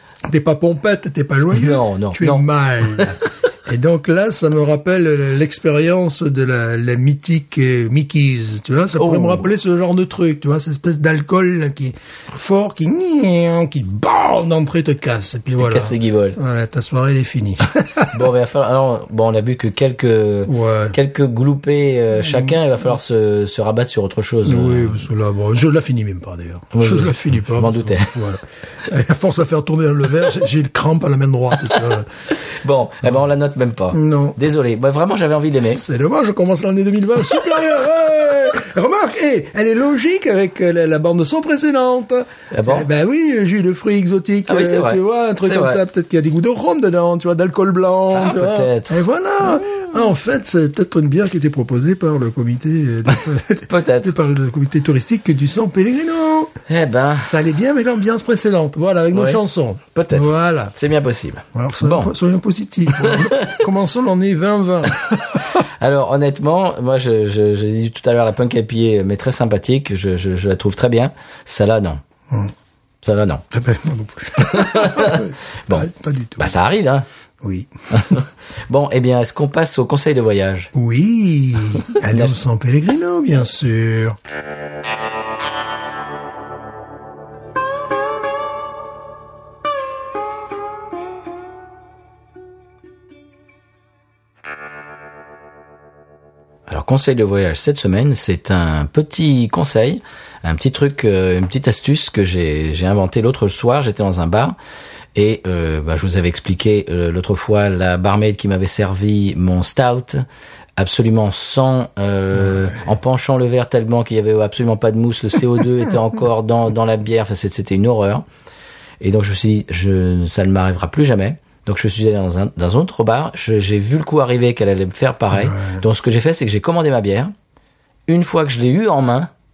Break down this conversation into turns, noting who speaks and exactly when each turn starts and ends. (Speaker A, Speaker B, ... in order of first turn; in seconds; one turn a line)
Speaker A: 0.2-18.1
Speaker B: 1.5-3.2
Speaker B: 9.0-9.4
Speaker B: 15.6-16.4
Speaker B: 18.1-25.0
Speaker A: 20.5-21.0
Speaker A: 22.2-22.6
Speaker A: 24.4-32.1
Speaker B: 26.7-28.2
Speaker B: 32.4-35.8
Speaker A: 33.9-34.4
Speaker A: 35.7-56.5
Speaker B: 42.5-42.9
Speaker B: 44.5-45.8
Speaker B: 48.1-49.0
Speaker B: 53.7-54.1
Speaker B: 56.7-57.3
Speaker A: 57.2-60.7
Speaker B: 59.1-59.4
Speaker B: 59.9-62.1
Speaker A: 61.5-65.4
Speaker B: 63.0-63.6
Speaker B: 65.6-72.0
Speaker B: 73.0-73.4
Speaker A: 73.5-76.5
Speaker B: 74.4-77.0
Speaker A: 77.4-78.1
Speaker B: 77.9-80.7
Speaker A: 80.7-84.2
Speaker B: 82.1-82.3
Speaker B: 96.7-104.6
Speaker B: 105.2-110.2
Speaker B: 110.8-118.2
Speaker B: 119.0-127.3
Speaker A: 125.3-125.8
Speaker B: 128.1-129.3